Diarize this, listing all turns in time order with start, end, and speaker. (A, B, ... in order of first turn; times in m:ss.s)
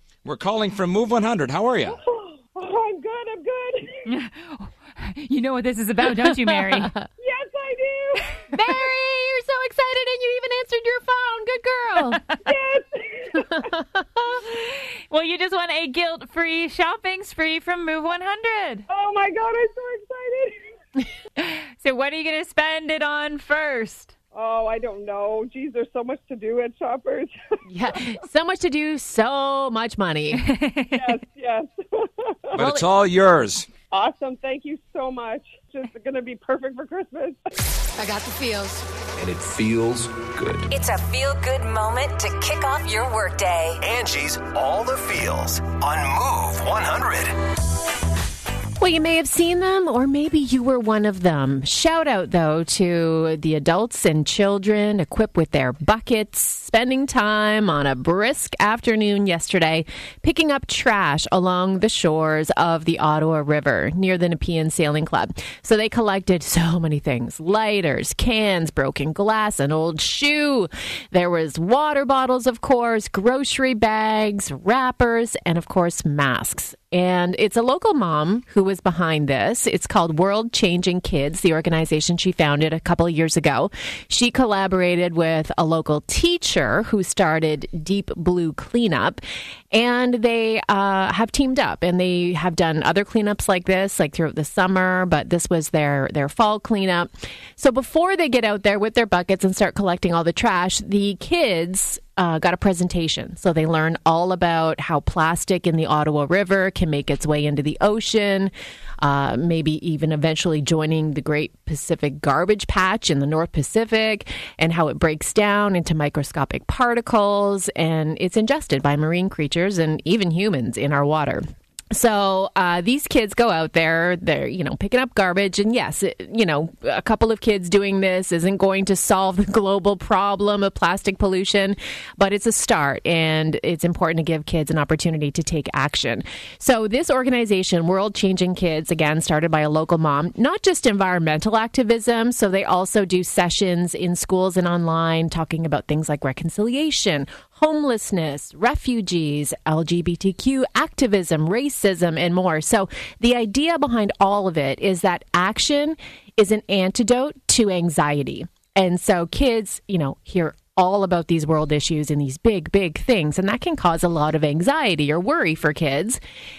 0:00.2-0:02.0 A
0:01.9-0:04.0 B
0:04.0-0:06.9 C
0:06.2-0:07.0 D
0:07.2-0:08.3 B
0:08.5-0:12.2 D
0:12.4-0:13.7 B
0:13.7-0:14.2 D
0:14.4-0:18.9 C
0:18.9-0:20.6 B
0:21.4-0:24.1 C
0:24.3-0:27.3 B
0:27.7-0:30.4 D
0:30.3-0:31.2 C
0:31.0-0:32.6 B
0:32.5-0:33.7 A
0:33.9-0:37.4 B
0:38.0-0:38.8 E
0:39.2-0:40.7 F
0:40.7-0:43.8 E
0:43.8-0:47.3 F
0:48.8-2:46.2 D